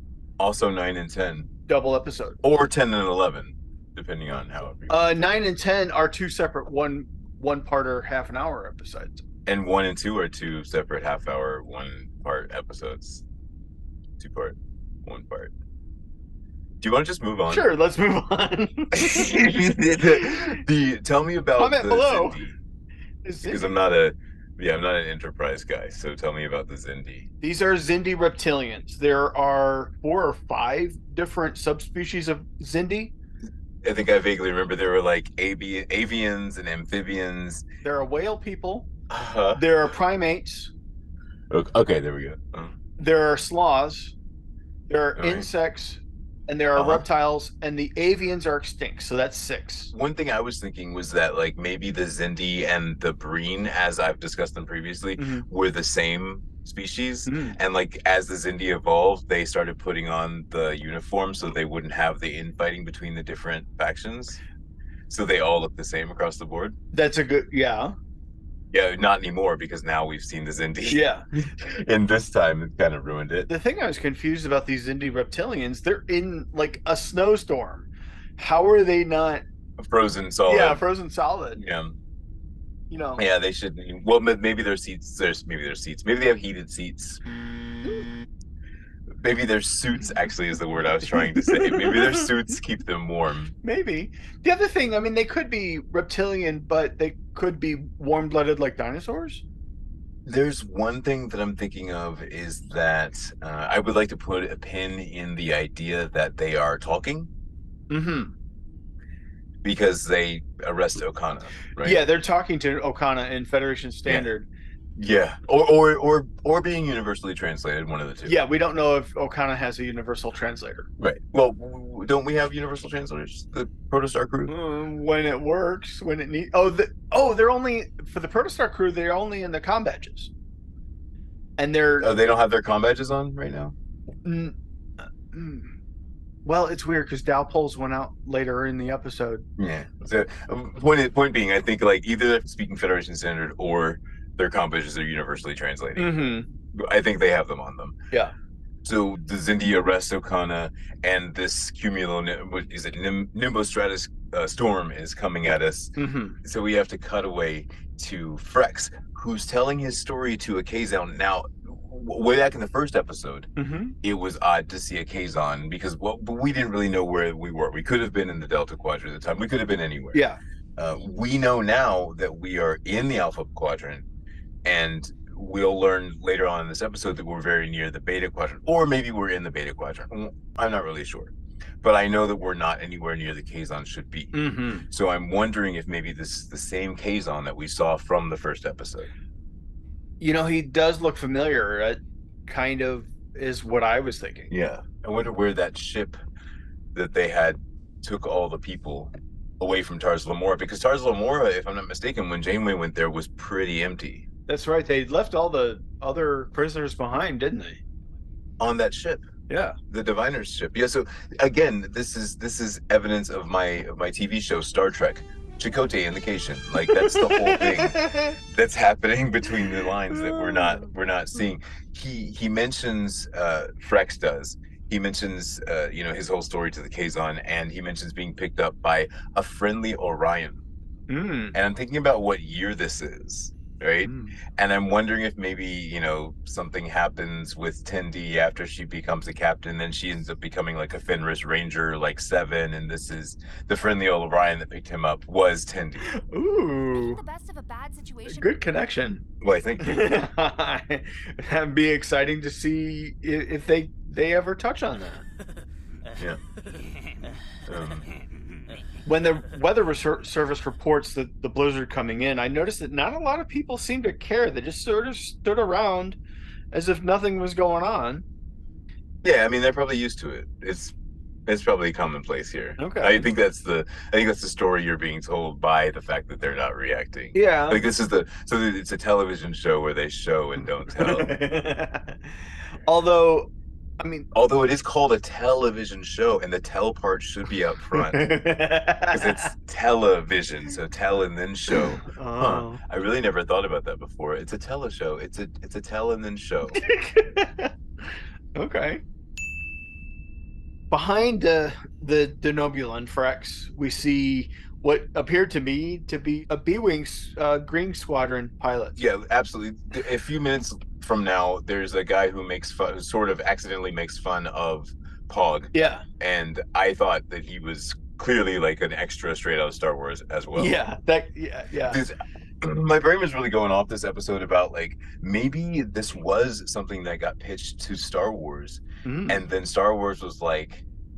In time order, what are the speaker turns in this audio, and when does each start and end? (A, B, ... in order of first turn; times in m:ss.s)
0:00.4-0:01.5 A
0:01.7-0:02.4 B
0:02.4-0:05.3 A
0:04.9-0:09.2 B
0:09.5-0:13.2 A
0:14.2-0:15.5 A
0:16.8-0:17.7 A
0:17.5-0:20.6 B
0:18.9-0:22.6 A
0:21.6-0:22.4 B
0:23.2-0:23.7 B
0:23.4-0:27.3 A
0:27.4-0:33.1 B
0:33.8-0:37.6 A
0:37.8-0:38.9 B
0:39.1-0:39.6 A
0:39.6-0:40.7 B
0:41.5-0:42.8 A
0:43.0-0:44.2 B
0:44.9-0:49.9 B
0:45.2-0:45.5 A
0:46.8-0:47.1 A
0:49.9-1:04.4 A
0:55.2-0:55.5 B
0:57.3-0:57.6 B
1:05.1-1:06.8 A
1:06.9-1:08.0 B
1:08.7-1:13.5 A
1:10.9-1:11.2 B
1:13.5-1:19.4 B
1:19.8-1:20.8 A
1:20.5-1:21.6 B
1:21.5-1:22.0 A
1:22.9-1:23.2 B
1:23.2-1:27.2 A
1:29.2-1:33.5 A
1:31.2-1:32.3 B
1:33.6-1:39.4 B
1:40.3-1:47.3 A
1:47.9-1:48.3 B
1:49.6-1:52.0 A
1:51.8-1:54.5 B
1:55.0-1:58.4 A
1:58.2-2:00.9 B
2:01.0-2:04.5 A
2:04.5-2:10.3 B
2:11.6-2:12.1 B
2:12.0-2:13.8 A
2:14.2-2:14.6 B
2:15.3-2:15.8 B
2:16.4-2:19.5 B
2:19.6-2:28.0 A
2:26.0-2:26.5 B
2:28.8-2:43.5 A
2:36.0-2:36.4 B
2:43.6-2:44.0 B
2:44.0-2:54.1 A
2:50.1-2:50.4 B
2:54.6-3:09.1 A
3:04.3-3:04.9 B
3:10.2-3:14.5 B
3:14.5-3:16.2 A
3:17.0-3:24.3 A
3:24.5-3:27.8 B
3:28.6-3:29.3 A
3:29.5-3:29.8 B
3:29.8-3:50.6 A
3:37.1-3:38.3 B
3:40.3-3:40.8 B
3:51.1-3:51.6 B
3:51.5-4:06.1 A
3:54.0-3:54.4 B
4:06.0-4:07.2 B
4:06.9-4:08.9 C
4:08.3-4:09.2 B
4:09.4-4:10.3 A
4:09.8-4:15.2 B
4:17.7-4:18.0 A
4:19.0-4:26.2 B
4:26.7-4:28.2 B
4:29.2-4:31.0 A
4:31.5-4:41.4 A
4:32.8-4:33.3 B
4:37.3-4:37.8 B
4:41.0-4:42.2 B
4:42.8-4:44.3 B
4:44.3-4:48.3 A
4:48.0-4:49.5 B
4:49.1-4:56.8 A
4:52.0-4:52.8 B
4:56.8-4:57.7 B
4:58.6-4:59.0 B
5:00.9-5:09.0 B
5:09.0-5:20.8 A
5:15.7-5:16.0 B
5:20.6-5:22.0 B
5:21.9-5:30.8 A
5:29.0-5:29.4 B